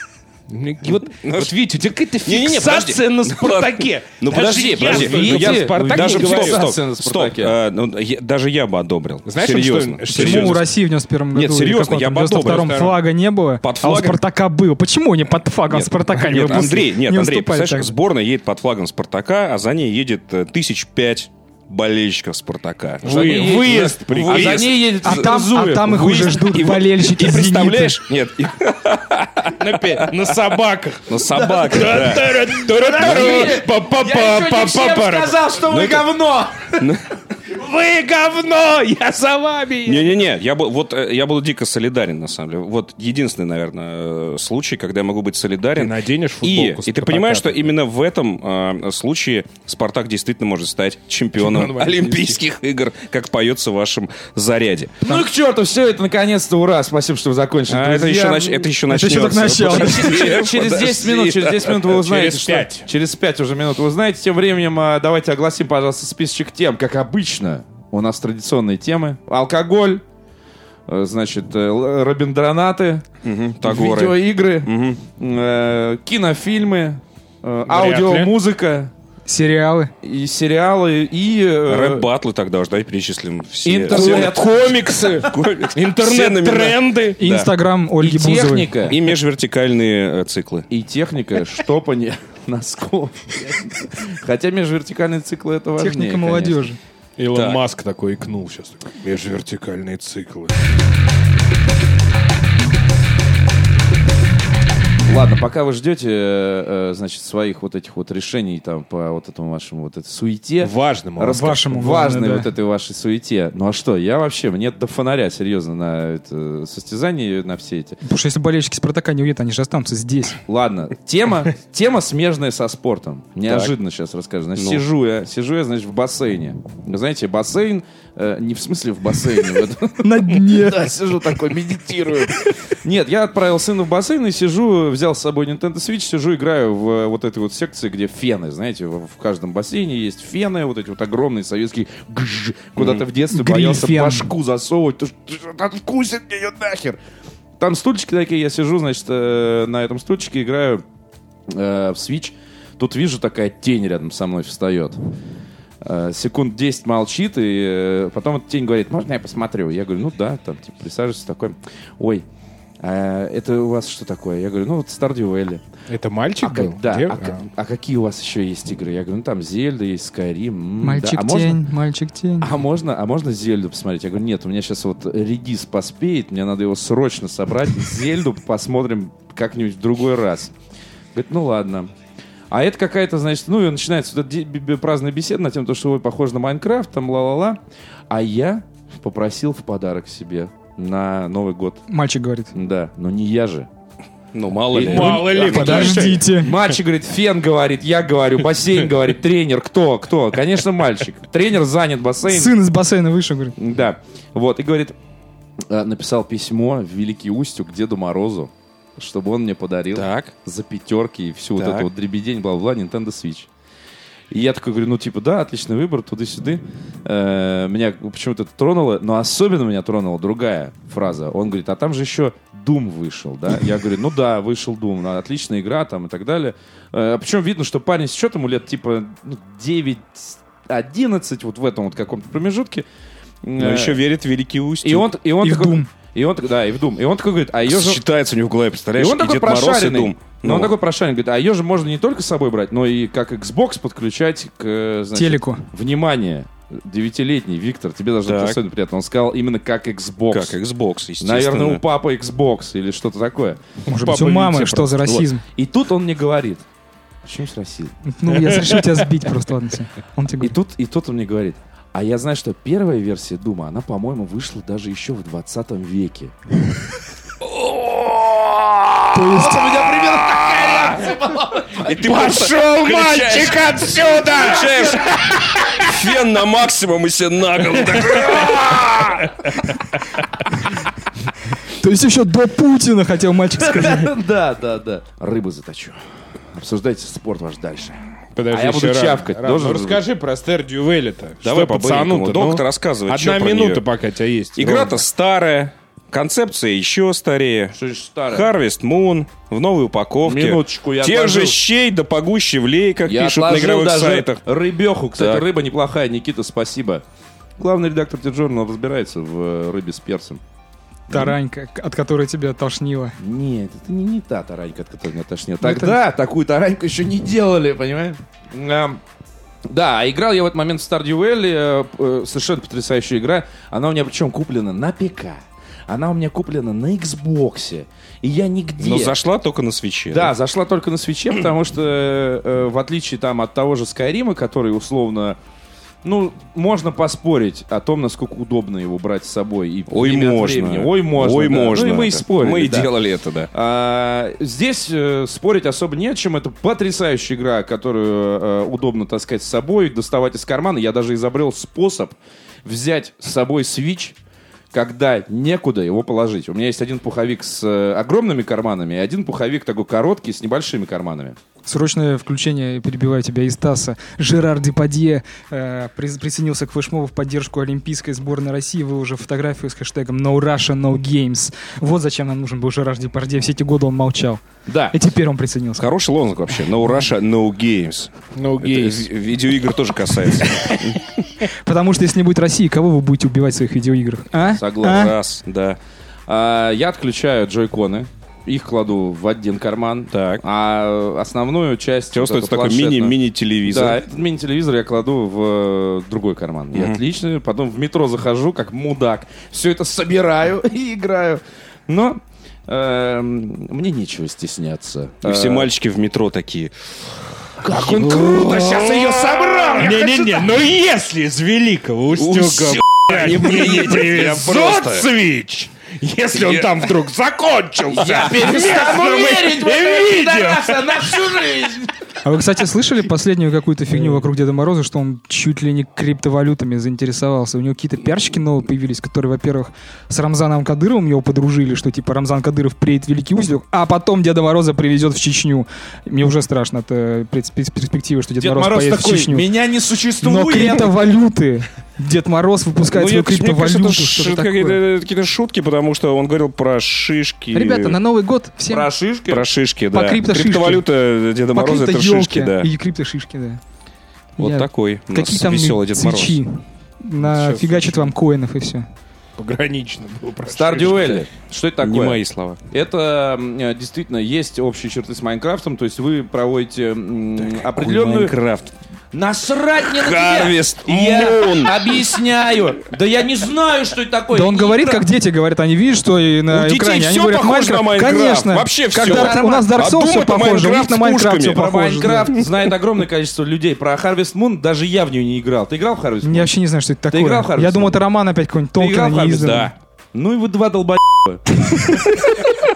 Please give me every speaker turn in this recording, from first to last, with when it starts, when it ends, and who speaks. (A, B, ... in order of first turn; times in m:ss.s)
0:00.5-0:06.7 A
0:01.0-0:01.6 B
0:02.2-0:10.6 B
0:04.3-0:07.5 C
0:09.2-0:10.7 A
0:10.1-0:17.9 D
0:11.3-0:12.8 B
0:12.4-0:13.0 A
0:13.6-0:14.2 B
0:15.7-0:25.3 B
0:23.0-0:24.6 A
0:23.0-0:26.3 C
0:25.0-0:28.0 D
0:25.9-0:30.4 B
0:29.5-0:35.6 A
0:31.1-0:33.6 B
0:31.3-0:32.1 C
0:32.7-0:36.8 C
0:35.6-0:36.1 B
0:36.7-0:37.1 B
0:37.4-0:40.2 A
0:39.8-0:55.2 B
0:45.8-0:47.7 A
0:51.4-0:52.4 A
0:55.0-0:58.7 C
0:57.7-1:01.9 B
0:58.9-1:00.3 D
0:59.6-1:10.0 C
1:01.8-1:02.9 A
1:10.9-1:13.0 C
1:13.2-1:15.0 B
1:13.6-1:18.9 C
1:17.6-1:18.3 A
1:19.2-1:19.9 D
1:20.0-1:22.1 C
1:21.7-1:24.4 B
1:23.6-1:24.7 C
1:23.9-1:27.2 A
1:25.2-1:27.5 B
1:27.2-1:28.8 D
1:28.0-1:29.0 C
1:28.8-1:30.7 B
1:30.7-1:36.7 C
1:35.8-1:36.8 D
1:37.2-1:40.5 A
1:37.3-1:37.6 B
1:45.0-1:58.0 C
1:50.6-1:51.6 A
1:51.2-1:52.5 D
1:58.0-2:00.4 D
2:00.5-2:27.0 C
2:03.4-2:03.7 B
2:04.6-2:04.8 B
2:10.0-2:10.9 D
2:22.8-2:23.0 B
2:23.3-2:24.3 D
2:27.6-2:30.8 C
2:31.5-2:35.0 C
2:35.8-2:42.2 C
2:42.8-2:45.6 C
2:45.9-2:47.4 A
2:46.4-2:51.6 C
2:50.8-2:52.5 D
2:52.4-3:00.5 C
3:01.1-3:01.9 C
3:02.5-3:11.8 C
3:11.9-3:12.5 D
3:12.5-3:13.7 C
3:14.3-3:16.0 B
3:14.7-3:22.5 C
3:14.8-3:16.2 A
3:15.3-3:16.5 D
3:22.2-3:23.5 D
3:23.6-3:25.0 C
3:25.7-3:33.5 C
3:29.9-3:30.3 B
3:31.6-3:31.9 B
3:34.3-3:52.8 C
3:53.4-3:54.0 C
3:53.6-3:55.1 B
3:54.8-3:58.0 C
3:55.4-3:55.9 D
3:57.7-4:00.7 B
3:59.0-4:10.6 C
4:05.1-4:05.6 D
4:08.2-4:08.6 B
4:10.3-4:11.8 B
4:11.2-4:13.6 C
4:13.9-4:15.2 A
4:13.9-4:15.4 D
4:15.5-4:16.6 C
4:17.2-4:17.9 C
4:18.1-4:20.5 D
4:18.3-4:19.0 A
4:20.4-4:26.3 C
4:27.4-4:31.2 B
4:29.1-4:29.8 D
4:29.2-4:32.3 C
4:31.7-4:39.4 B
4:32.0-4:34.7 A
4:33.8-4:35.8 C
4:38.1-4:38.4 C
4:41.6-4:44.1 D
4:43.6-4:46.0 C
4:46.5-4:50.0 C
4:48.3-4:55.0 A
4:51.4-4:53.8 B
4:54.6-4:57.8 B
4:57.7-4:58.5 C
4:58.3-5:04.4 B
5:00.2-5:01.6 C
5:03.0-5:07.0 C
5:05.2-5:05.4 B
5:07.6-5:10.4 C
5:11.1-5:11.4 C
5:11.1-5:13.2 D
5:13.2-5:19.0 C
5:15.6-5:16.0 D
5:19.7-5:29.2 C
5:28.8-5:30.3 B
5:30.1-5:35.4 C
5:36.0-5:42.9 C
5:39.9-5:43.5 B
5:43.5-5:54.2 C
5:54.7-6:01.4 C
6:01.6-6:15.9 D
6:14.7-6:15.0 C
6:15.8-6:21.2 B
6:18.4-6:19.1 A
6:21.5-6:25.1 D
6:24.4-6:25.1 C
6:24.8-6:25.8 B
6:26.3-6:45.7 C
6:30.1-6:30.4 B
6:32.1-6:34.0 B
6:36.7-6:37.0 B
6:45.2-6:46.7 B
6:47.6-6:50.5 C
6:47.7-7:01.4 A
6:52.1-6:55.1 B
6:56.3-6:56.8 B
6:57.9-7:01.9 C
7:02.2-7:19.5 D
7:18.4-7:20.9 C
7:20.2-7:24.8 D
7:22.8-7:28.0 B
7:27.5-7:28.9 D
7:28.7-7:29.4 C
7:29.3-7:32.7 B
7:29.9-7:30.9 D
7:31.5-7:33.6 D
7:34.4-7:36.4 B
7:34.4-7:38.9 D
7:37.2-7:38.1 A
7:39.4-7:41.2 A
7:40.5-7:48.3 C
7:41.8-7:42.6 B
7:47.4-7:48.7 B
7:49.1-7:55.0 C
7:49.8-7:52.0 B
7:54.3-8:02.4 D
7:56.5-8:01.7 B
7:58.9-7:59.7 C
8:01.5-8:06.5 C
8:06.2-8:09.7 D
8:07.1-8:08.0 C
8:08.8-8:11.6 C
8:11.8-8:12.5 D